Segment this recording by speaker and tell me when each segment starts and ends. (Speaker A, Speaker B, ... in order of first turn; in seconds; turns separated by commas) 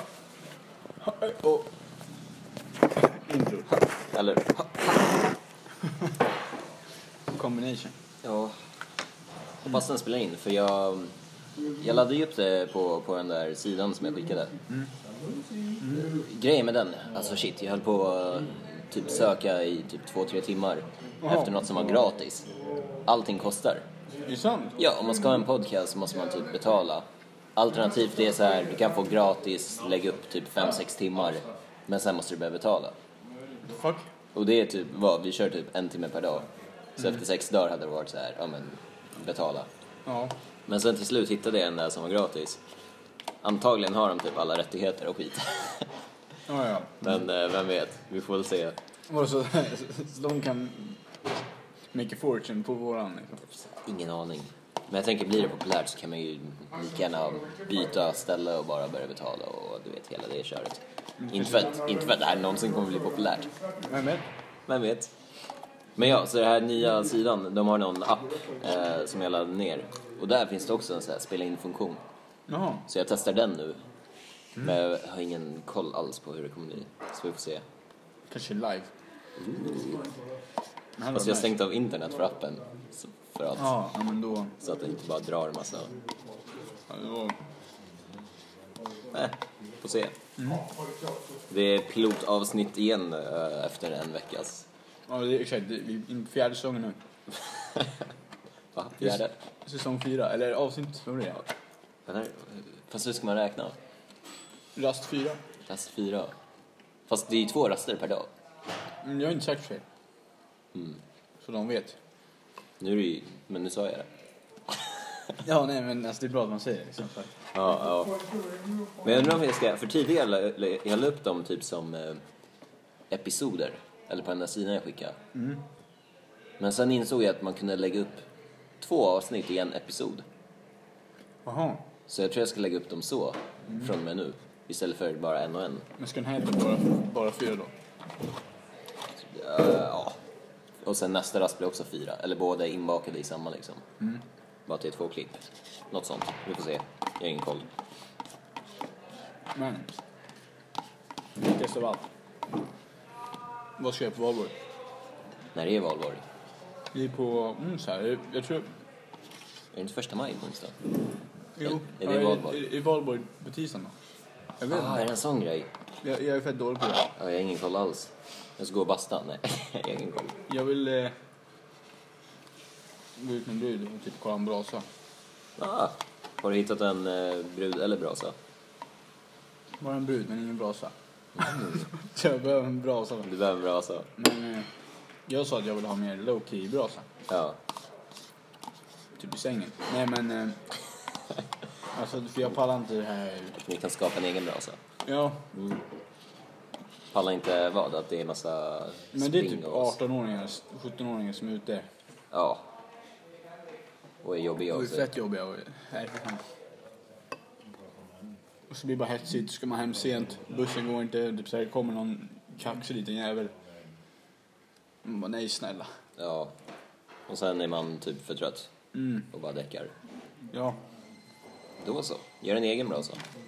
Speaker A: 1.0-1.7, Speaker A: 2.9-3.8, Speaker B: 4.1-5.3, Speaker A: 7.3-7.9, Speaker B: 8.2-8.6, Speaker B: 9.6-11.1, Speaker B: 11.8-14.5, Speaker A: 15.8-16.1, Speaker B: 16.1-22.5, Speaker A: 21.2-21.5, Speaker B: 23.0-23.9, Speaker A: 24.2-24.8, Speaker B: 24.8-33.0, Speaker A: 33.6-34.1, Speaker B: 34.3-39.7, Speaker A: 40.0-40.3, Speaker B: 40.7-42.6, Speaker B: 43.4-45.9, Speaker A: 46.5-47.1, Speaker B: 47.0-48.8, Speaker A: 49.1-51.0, Speaker A: 51.9-53.4, Speaker B: 53.5-63.5, Speaker A: 61.2-61.7, Speaker A: 63.8-64.2, Speaker B: 64.7-65.1, Speaker B: 66.0-72.0, Speaker A: 72.5-72.9, Speaker B: 72.9-73.8, Speaker B: 74.6-77.6, Speaker A: 78.3-78.9, Speaker B: 79.4-80.1, Speaker A: 81.0-81.5, Speaker B: 81.1-83.7, Speaker A: 83.5-84.6, Speaker B: 84.6-85.9, Speaker A: 86.9-87.4, Speaker B: 89.1-90.2, Speaker A: 90.4-90.7, Speaker B: 91.5-94.7, Speaker A: 95.1-97.0, Speaker B: 97.4-98.1, Speaker B: 98.7-99.4, Speaker A: 99.0-101.5, Speaker B: 102.1-103.7, Speaker A: 104.7-105.4, Speaker B: 105.7-106.3, Speaker B: 107.1-108.3, Speaker A: 109.0-109.8, Speaker B: 110.7-111.0, Speaker A: 111.4-112.0, Speaker B: 112.8-114.1, Speaker B: 114.7-115.3, Speaker A: 115.4-117.3, Speaker B: 117.5-118.2, Speaker B: 119.0-122.2, Speaker B: 123.1-125.2, Speaker A: 125.3-125.6, Speaker B: 126.6-128.2, Speaker B: 128.8-130.2, Speaker A: 131.4-131.9, Speaker B: 132.1-135.9, Speaker A: 136.0-137.7, Speaker B: 139.2-140.2, Speaker B: 140.8-143.8, Speaker B: 144.7-147.7, Speaker A: 149.5-150.0, Speaker A: 151.4-152.1, Speaker A: 153.8-154.6, Speaker B: 155.5-156.2, Speaker A: 156.9-158.8, Speaker B: 159.7-160.8, Speaker A: 161.6-163.9, Speaker B: 161.6-162.6, Speaker A: 164.6-165.1, Speaker B: 164.6-165.7, Speaker A: 166.0-167.1, Speaker B: 167.2-170.4, Speaker A: 170.5-171.1, Speaker A: 173.2-174.9, Speaker B: 175.6-178.3, Speaker A: 179.8-183.3, Speaker B: 181.3-181.9, Speaker B: 183.2-184.1, Speaker A: 184.2-184.7, Speaker A: 185.3-187.1, Speaker B: 187.3-187.6, Speaker A: 189.2-190.6, Speaker A: 191.9-193.6, Speaker B: 193.6-194.8, Speaker A: 195.0-195.5, Speaker B: 195.5-195.8, Speaker B: 197.1-199.9, Speaker A: 199.1-201.9, Speaker B: 202.3-202.7, Speaker B: 204.2-205.1, Speaker A: 204.7-206.4, Speaker A: 208.7-213.5, Speaker A: 215.0-215.9, Speaker B: 216.2-216.5, Speaker B: 217.3-218.7, Speaker A: 218.9-219.3, Speaker B: 219.3-219.9, Speaker A: 220.5-220.8, Speaker B: 221.8-223.2